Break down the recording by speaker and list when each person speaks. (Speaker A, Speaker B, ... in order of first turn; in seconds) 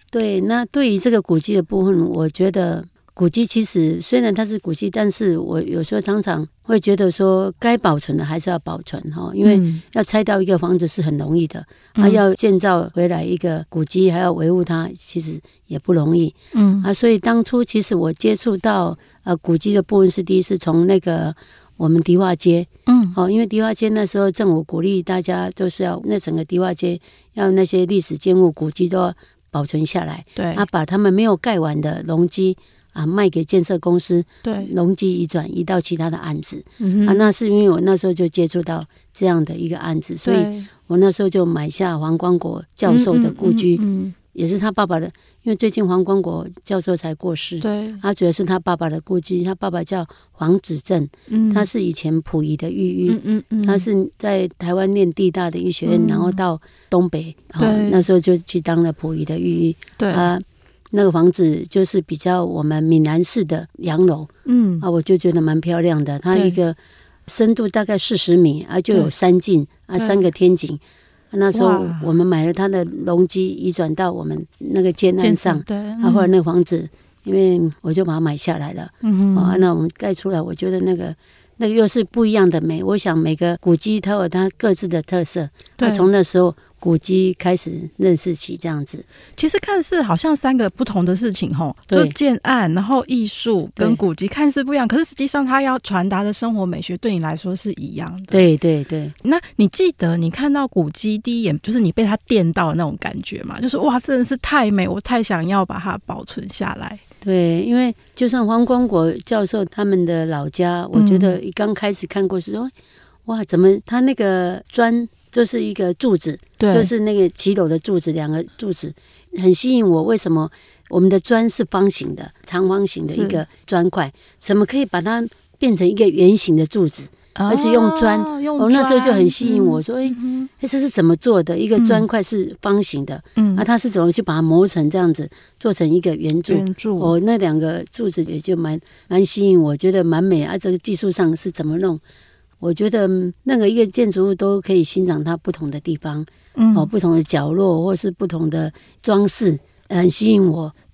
Speaker A: 0.1-64.3, 64.8-66.8, 67.3-89.0, 91.9-92.1, 98.3-99.1, 107.2-112.7, 113.2-142.0, 142.6-150.7
Speaker B: 9.4-9.8, 11.9-12.2, 16.5-16.9, 22.9-23.1, 30.4-30.6, 34.4-34.7, 36.8-37.2, 40.2-40.7, 42.9-44.1, 47.6-48.0, 51.3-51.7, 53.1-53.9, 55.9-56.4, 57.6-58.0, 60.0-60.3, 64.4-64.9, 66.3-66.6, 70.0-70.2, 71.5-72.1, 75.2-76.3, 79.0-79.6, 85.8-86.1, 89.4-98.5, 99.2-107.0, 110.9-111.3, 116.6-116.9, 123.1-123.4, 127.3-130.5, 131.8-132.1, 133.3-133.6, 136.5-137.1, 146.6-146.9